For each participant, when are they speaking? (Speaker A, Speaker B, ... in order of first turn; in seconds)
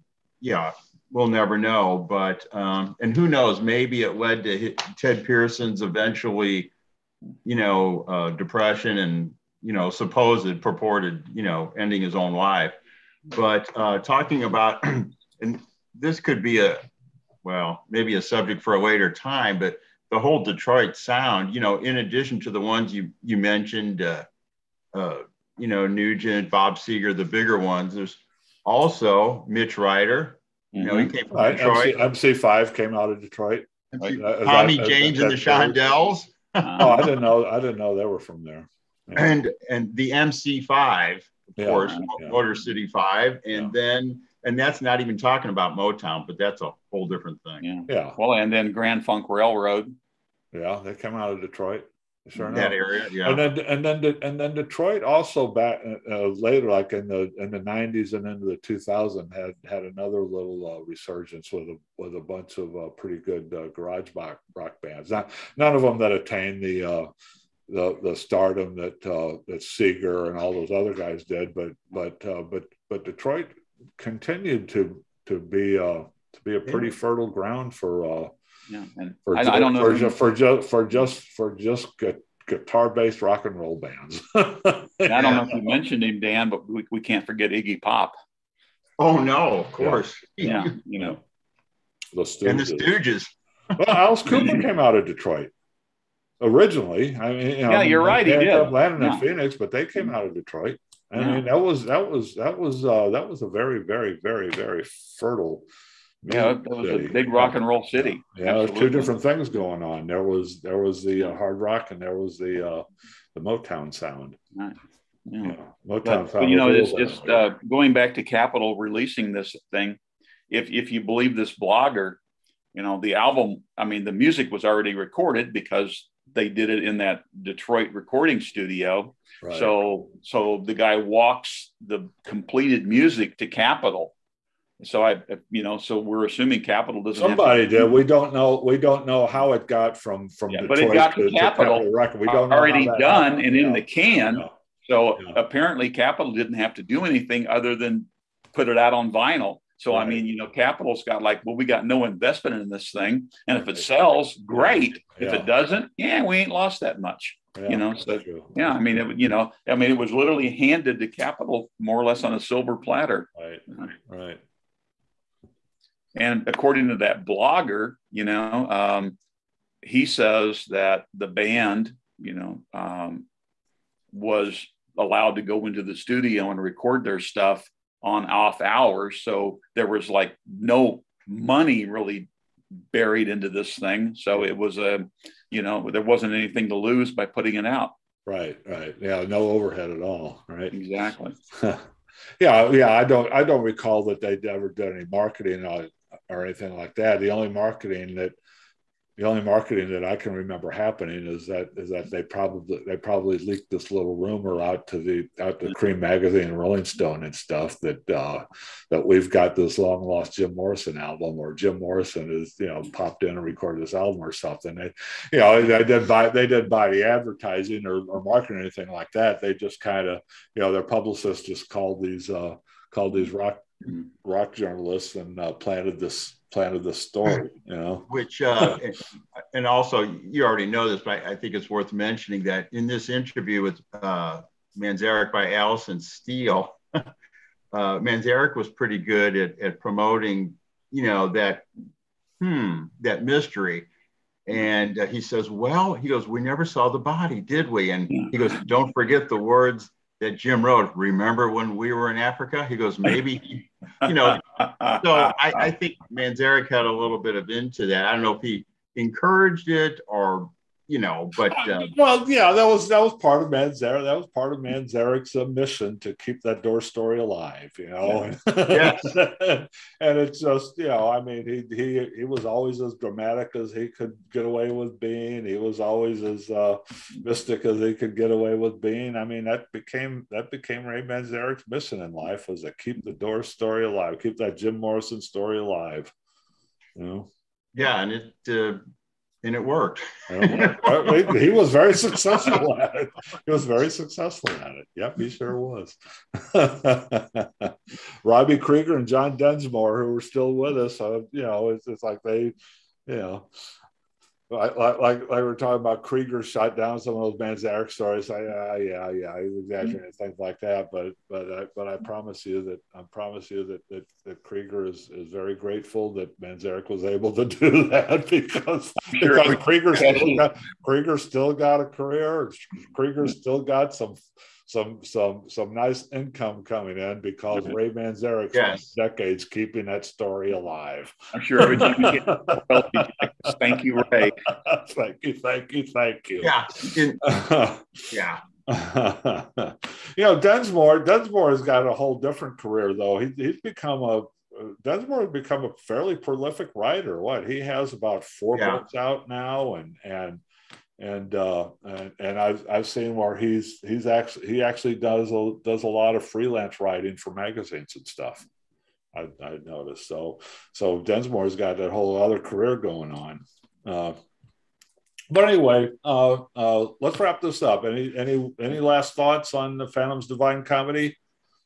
Speaker A: 0.4-6.7, 7.4-12.8, 13.3-16.8, 17.4-24.3, 24.9-32.0, 33.9-37.0, 39.1-47.6, 52.5-53.4, 85.1-85.6, 89.0-90.8, 92.4-94.5, 228.1-237.1, 237.7-241.7, 242.4-243.9, 244.4-261.9, 268.7-269.1, 287.7-288.8, 289.4-291.4, 328.5-328.9, 336.4-337.2, 338.1-338.4, 348.5-348.8
Speaker B: 30.7-31.1, 36.6-37.0, 41.8-42.1, 47.6-49.9, 78.7-80.2, 85.0-88.2, 90.4-91.2, 97.7-99.2, 101.2-101.4, 106.3-109.1, 115.3-120.0, 120.5-122.2, 122.7-134.1, 134.8-137.9, 140.5-163.9, 166.1-169.2, 169.8-173.3, 174.1-182.3, 182.9-187.9, 190.7-191.3, 254.1-255.6, 319.0-320.4, 331.3-334.4
Speaker C: 31.3-35.9, 36.8-39.3, 41.6-42.4, 47.9-48.2, 50.5-67.1, 67.7-78.3, 79.3-85.6, 89.8-90.0, 92.1-92.9, 93.8-95.5, 96.4-105.7, 106.2-114.4, 115.4-117.4, 129.4-129.7, 137.2-144.5, 149.9-150.2, 153.5-153.8, 154.5-155.5, 157.5-158.8, 163.3-164.4, 188.2-190.7, 191.5-191.8, 192.4-198.3, 199.2-228.1, 261.5-286.1, 286.9-287.3, 290.3-302.5, 303.1-303.4, 304.5-336.5, 337.2-338.1, 338.7-350.4, 351.0-358.5, 359.1-364.1, 365.3-371.2